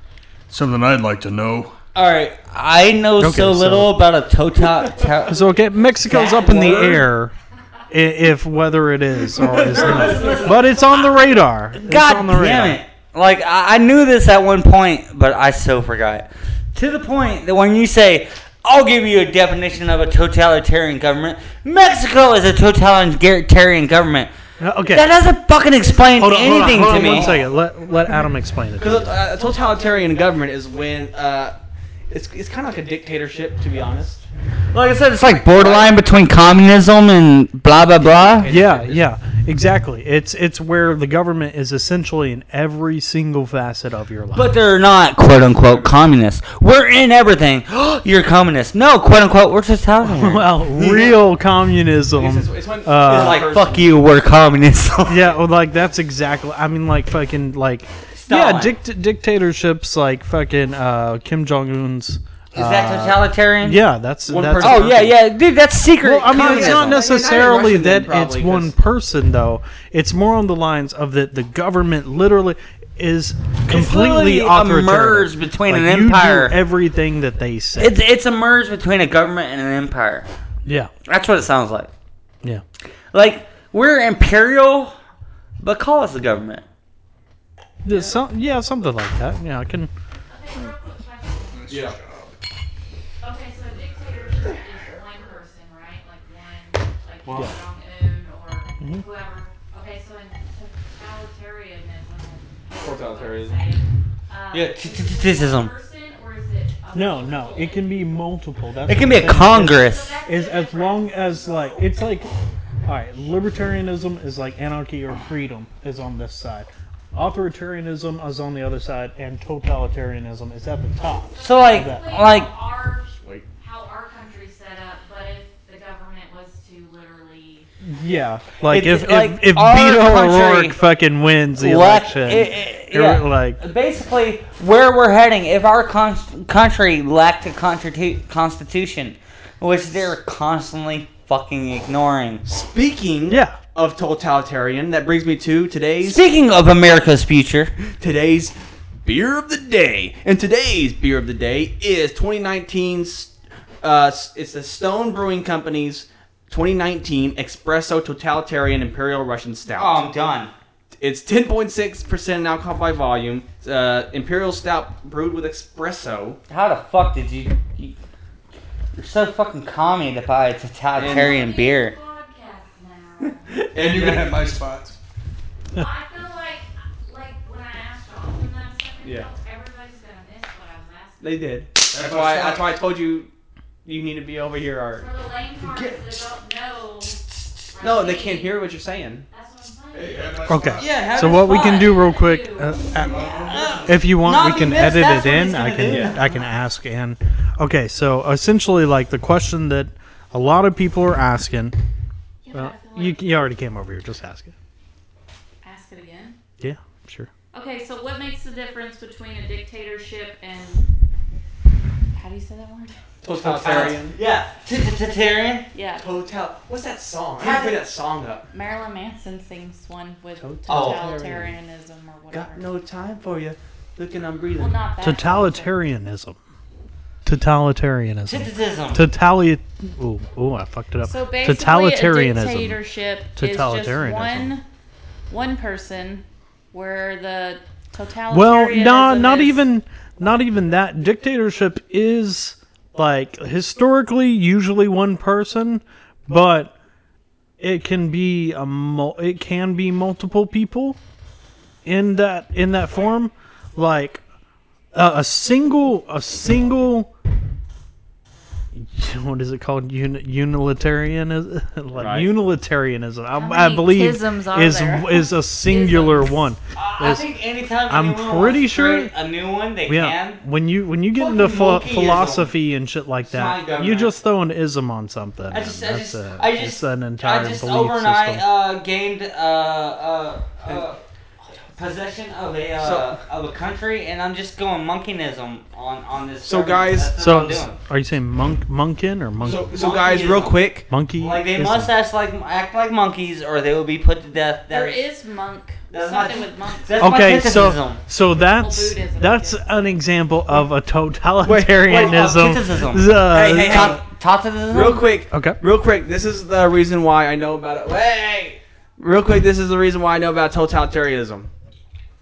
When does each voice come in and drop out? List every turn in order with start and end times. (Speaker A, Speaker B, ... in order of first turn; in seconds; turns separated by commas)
Speaker A: 0.5-1.7, Speaker B: 1.9-5.4, Speaker C: 3.2-4.0, Speaker C: 5.3-7.3, Speaker D: 6.1-7.1, Speaker C: 7.9-12.8, Speaker D: 9.3-10.6, Speaker B: 9.7-10.7, Speaker E: 10.2-11.2, Speaker B: 11.8-24.3, Speaker C: 24.6-25.1, Speaker B: 24.9-27.4, Speaker C: 26.1-29.2, Speaker D: 28.8-31.6, Speaker D: 32.1-34.2, Speaker B: 34.7-38.5, Speaker D: 35.5-36.0, Speaker D: 38.0-39.1, Speaker C: 38.5-44.6, Speaker B: 44.4-51.1, Speaker D: 45.6-45.9, Speaker C: 50.0-53.4, Speaker D: 52.1-54.0, Speaker B: 53.1-55.2, Speaker C: 55.1-65.2, Speaker B: 58.2-58.7, Speaker B: 62.5-63.8, Speaker D: 64.3-65.2, Speaker B: 64.6-67.1, Speaker C: 66.0-78.0, Speaker D: 66.3-68.7, Speaker B: 73.7-76.6, Speaker B: 77.8-80.3, Speaker C: 80.7-80.9, Speaker B: 81.1-81.9, Speaker B: 83.1-84.9, Speaker B: 85.6-86.7, Speaker C: 87.8-89.9, Speaker E: 90.3-91.7, Speaker A: 91.6-92.3, Speaker D: 91.7-92.0, Speaker E: 93.2-107.9, Speaker D: 102.8-103.6, Speaker B: 104.5-105.7, Speaker C: 106.9-112.3, Speaker B: 108.9-110.2, Speaker E: 109.5-111.8, Speaker C: 112.8-122.0, Speaker E: 121.4-127.7, Speaker B: 121.4-122.5, Speaker D: 123.1-123.5, Speaker C: 127.8-133.6, Speaker B: 128.7-130.8, Speaker B: 131.6-142.4, Speaker D: 142.5-146.2, Speaker C: 143.3-143.6, Speaker B: 146.0-147.7, Speaker D: 148.0-160.1, Speaker B: 159.7-160.5, Speaker D: 161.0-166.4, Speaker B: 166.5-168.0, Speaker B: 169.0-171.9, Speaker D: 171.0-171.4, Speaker E: 171.0-173.5, Speaker D: 173.5-174.5, Speaker A: 173.8-174.9, Speaker E: 175.8-181.4, Speaker D: 179.0-179.3, Speaker D: 181.2-183.3, Speaker A: 181.9-182.6, Speaker D: 183.8-185.1, Speaker E: 185.0-187.2, Speaker B: 185.7-186.1, Speaker E: 187.7-188.6, Speaker D: 187.8-189.3, Speaker E: 189.3-190.4, Speaker A: 190.1-190.8, Speaker C: 190.5-201.8, Speaker B: 190.8-191.9, Speaker E: 191.3-193.5, Speaker B: 193.3-196.3, Speaker D: 195.8-196.2, Speaker E: 202.4-203.3, Speaker C: 202.5-204.5, Speaker E: 205.6-206.4, Speaker C: 206.6-207.3, Speaker E: 207.5-210.9, Speaker E: 212.1-213.0, Speaker D: 213.2-214.2, Speaker B: 213.4-215.7, Speaker E: 215.7-216.1, Speaker D: 216.0-218.5, Speaker B: 217.4-217.8, Speaker E: 218.5-222.7, Speaker D: 220.4-221.5, Speaker B: 220.7-221.1, Speaker D: 222.3-224.8, Speaker E: 224.6-225.8, Speaker C: 225.0-226.4, Speaker C: 227.2-232.8, Speaker B: 228.3-229.1, Speaker E: 231.0-234.6, Speaker C: 233.4-234.5, Speaker E: 235.3-239.7, Speaker C: 238.3-246.7, Speaker C: 247.6-251.0, Speaker C: 251.8-254.2, Speaker C: 254.9-257.1, Speaker C: 258.8-267.3, Speaker D: 262.0-262.3, Speaker E: 263.3-266.4, Speaker B: 266.8-270.4, Speaker C: 267.9-269.1, Speaker C: 269.9-278.4, Speaker B: 271.2-272.5, Speaker B: 273.2-274.1, Speaker B: 275.5-281.0, Speaker B: 281.7-287.8, Speaker D: 282.8-283.2, Speaker D: 286.4-287.1, Speaker C: 287.2-289.7, Speaker D: 289.4-290.9, Speaker B: 289.6-290.6, Speaker C: 290.9-291.9, Speaker B: 291.1-295.0, Speaker E: 294.7-297.2, Speaker B: 295.9-298.0, Speaker C: 297.0-304.0, Speaker E: 298.5-299.6, Speaker D: 301.4-302.3, Speaker B: 301.9-305.1, Speaker D: 303.4-304.0, Speaker D: 304.7-311.5, Speaker C: 305.3-305.6